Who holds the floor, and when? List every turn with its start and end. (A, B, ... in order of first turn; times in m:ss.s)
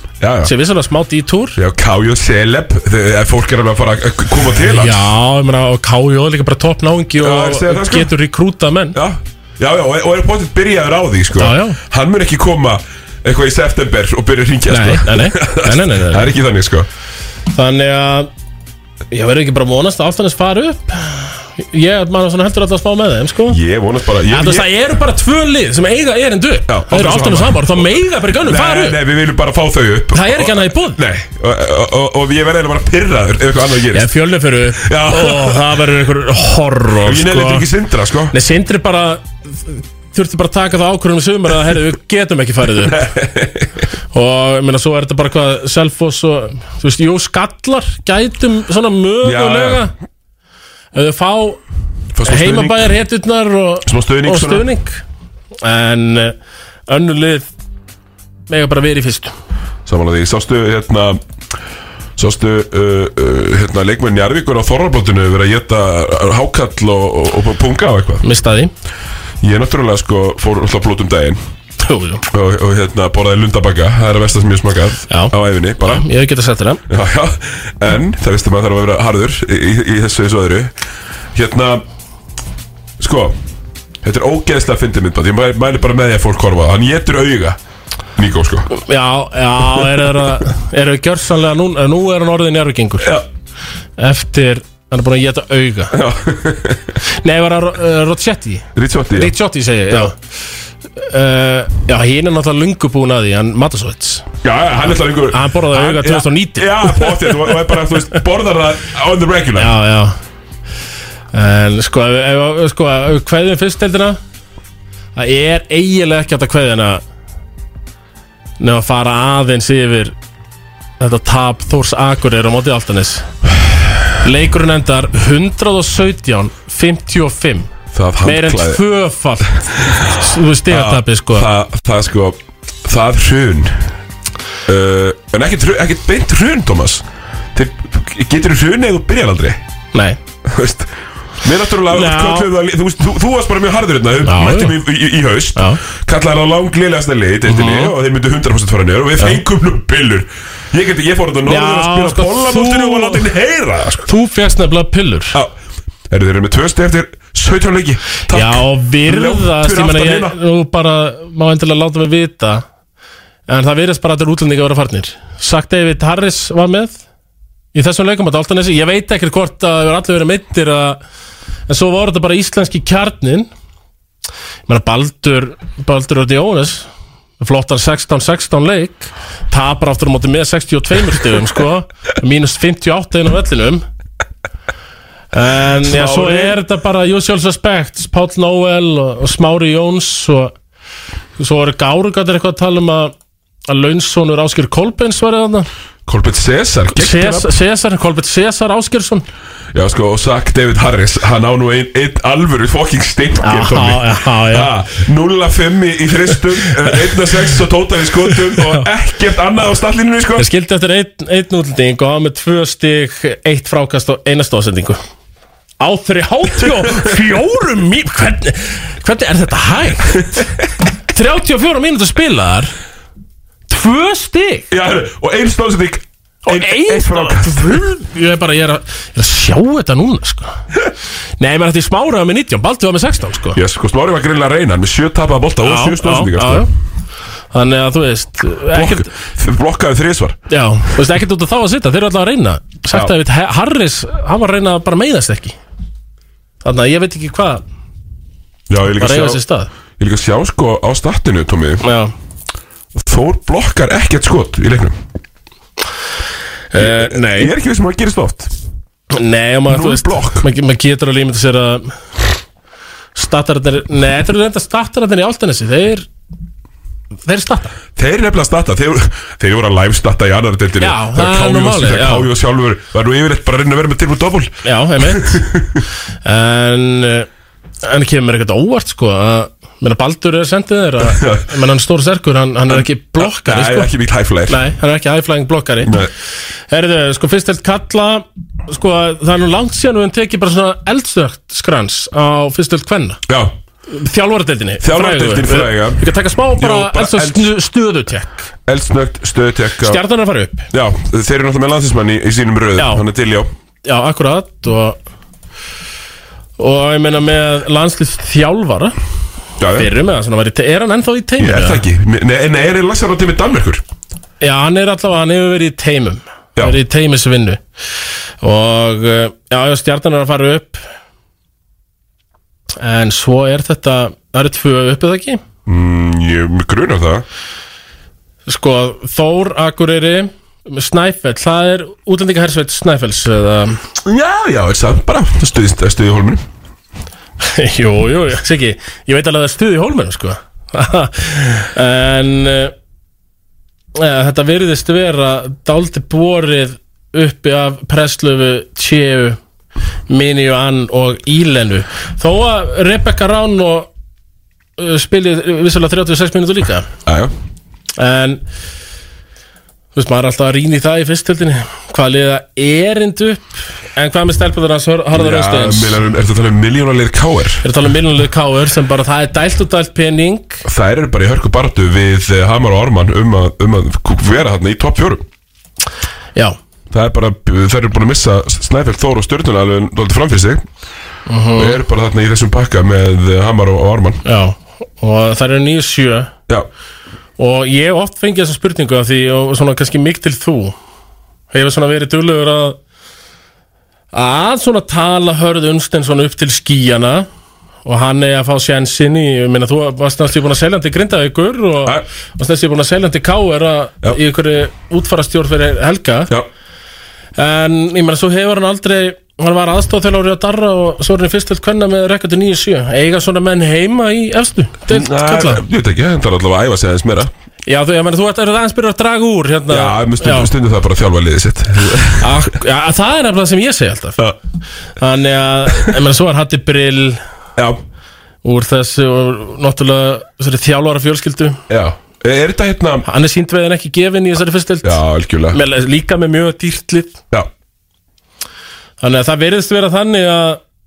0:00.2-0:00.5 A
0:00.4-0:01.6 B
0:01.6-0:05.0 A
0:04.6-0:09.0 B
0:07.2-0:08.1 A
0:08.9-0:16.9 A
0:11.4-0:11.8 B
0:14.7-0:16.3 B
0:17.5-0:18.3 B
0:19.1-0:23.6 B
0:23.5-0:24.7 A
0:24.3-0:29.0 B
0:26.7-0:27.8 A
0:28.4-0:34.1 A
0:30.1-0:31.0 B
0:33.9-0:37.7 B
0:34.8-0:35.7 A
0:37.0-0:38.4 A
0:38.3-0:43.1 B
0:42.8-0:43.7 A
0:44.1-0:49.9 B
0:49.2-0:49.9 A
0:50.9-0:51.6 B
0:52.1-0:53.0 A
0:52.2-0:55.0 B
0:53.8-0:54.7 A
0:55.6-0:56.4 B
0:56.9-0:57.5 B
0:58.5-0:59.3 B
0:59.9-1:01.2 A
1:02.2-1:08.2 A
1:08.2-1:08.7 B
1:09.4-1:11.4 A
1:11.8-1:12.2 B
1:12.3-1:16.1 A
1:15.1-1:16.8 B
1:16.9-1:20.7 A
1:21.3-1:21.8 A
1:23.0-1:23.4 A
1:24.0-1:27.6 A
1:28.2-1:28.7 A
1:28.7-1:33.2 B
1:33.0-1:33.3 A
1:34.0-1:36.0 B
1:35.9-1:36.9 A
1:37.2-1:40.2 B
1:38.8-1:39.3 A
1:41.0-1:44.3 B
1:44.4-1:49.8 A
1:45.3-1:48.2 B
1:49.6-1:50.2 B
1:51.3-1:54.2 B
1:55.2-1:57.0 B
1:58.6-2:00.2 B
2:01.0-2:03.3 B
2:04.2-2:07.7 B
2:07.9-2:08.8 A
2:08.2-2:11.5 B
2:09.8-2:13.9 A
2:14.7-2:19.6 A
2:19.9-2:20.2 B
2:20.4-2:34.1 A
2:21.9-2:22.5 B
2:24.2-2:24.8 B
2:27.5-2:27.9 B
2:31.5-2:33.3 B
2:34.1-2:35.4 B
2:36.1-2:40.4 A
2:38.3-2:42.6 B
2:43.5-2:47.0 B
2:47.7-2:51.0 B
2:51.7-2:53.5 B
2:54.7-2:56.9 B
2:57.4-3:03.8 B
3:05.3-3:10.5 B
3:05.8-3:06.6 A
3:11.4-3:13.1 B
3:13.7-3:15.7 B
3:16.1-3:17.6 A
3:16.9-3:19.2 B
3:19.7-3:30.5 A
3:23.4-3:24.7 B
3:28.3-3:28.9 B
3:30.4-3:35.0 B
3:35.8-3:40.4 B
3:41.1-3:42.7 B
3:43.7-3:44.7 B
3:44.7-3:47.9 A
3:46.5-3:50.6 B
3:51.4-3:53.6 B
3:53.5-3:56.7 A
3:55.6-3:56.7 B
3:57.5-3:59.1 B
3:58.7-4:00.4 A
4:00.5-4:05.6 B
4:06.6-4:07.6 B
4:08.7-4:09.4 A
4:08.9-4:09.7 B
4:10.0-4:11.8 A
4:11.8-4:12.1 B
4:12.9-4:15.0 A
4:16.7-4:17.5 B
4:16.8-4:18.5 A
4:19.1-4:22.0 B
4:19.7-4:20.5 A
4:23.2-4:26.1 B
4:27.2-4:27.8 B
4:28.0-4:35.8 A
4:30.8-4:32.3 B
4:34.6-4:35.5 B
4:36.2-4:37.3 B
4:37.8-4:43.9 B
4:41.0-4:41.5 A
4:42.7-4:44.6 A
4:44.5-4:46.1 B
4:45.8-4:46.1 A
4:46.7-4:53.2 B
4:53.3-4:53.5 A
4:53.9-4:58.5 B
4:54.8-4:57.5 A
4:58.7-5:00.0 A
4:59.8-5:00.7 B
5:00.7-5:03.5 A
5:02.8-5:03.0 B
5:03.8-5:05.0 B
5:06.6-5:09.0 B
5:09.6-5:09.9 A
5:09.7-5:11.8 B
5:11.4-5:13.8 A
5:14.4-5:17.6 B
5:18.4-5:20.8 B
5:22.8-5:25.4 B
5:25.7-5:27.2 A
5:28.5-5:33.8 B
5:34.0-5:36.4 A
5:37.4-5:42.7 B
5:44.0-5:49.4 B
5:50.1-5:53.9 B
5:54.8-5:56.9 B
5:57.1-5:57.3 A
5:58.0-5:58.4 B
6:00.0-6:06.0 B
6:05.1-6:07.6 A
6:07.6-6:10.6 B
6:10.6-6:15.3 A
6:16.9-6:20.7 A
6:21.3-6:21.8 B
6:21.6-6:24.2 A
6:24.2-6:26.3 B
6:27.4-6:30.8 B
6:31.5-6:32.8 B
6:34.1-6:37.3 B
6:37.8-6:46.3 B
6:47.4-6:55.6 B
6:54.9-6:57.3 A
6:57.7-7:00.5 B
6:59.7-7:02.5 A
7:02.2-7:04.2 B
7:05.0-7:07.2 B
7:08.4-7:11.6 B
7:11.7-7:13.1 A
7:13.0-7:17.2 B
7:14.8-7:15.6 A
7:19.0-7:20.6 B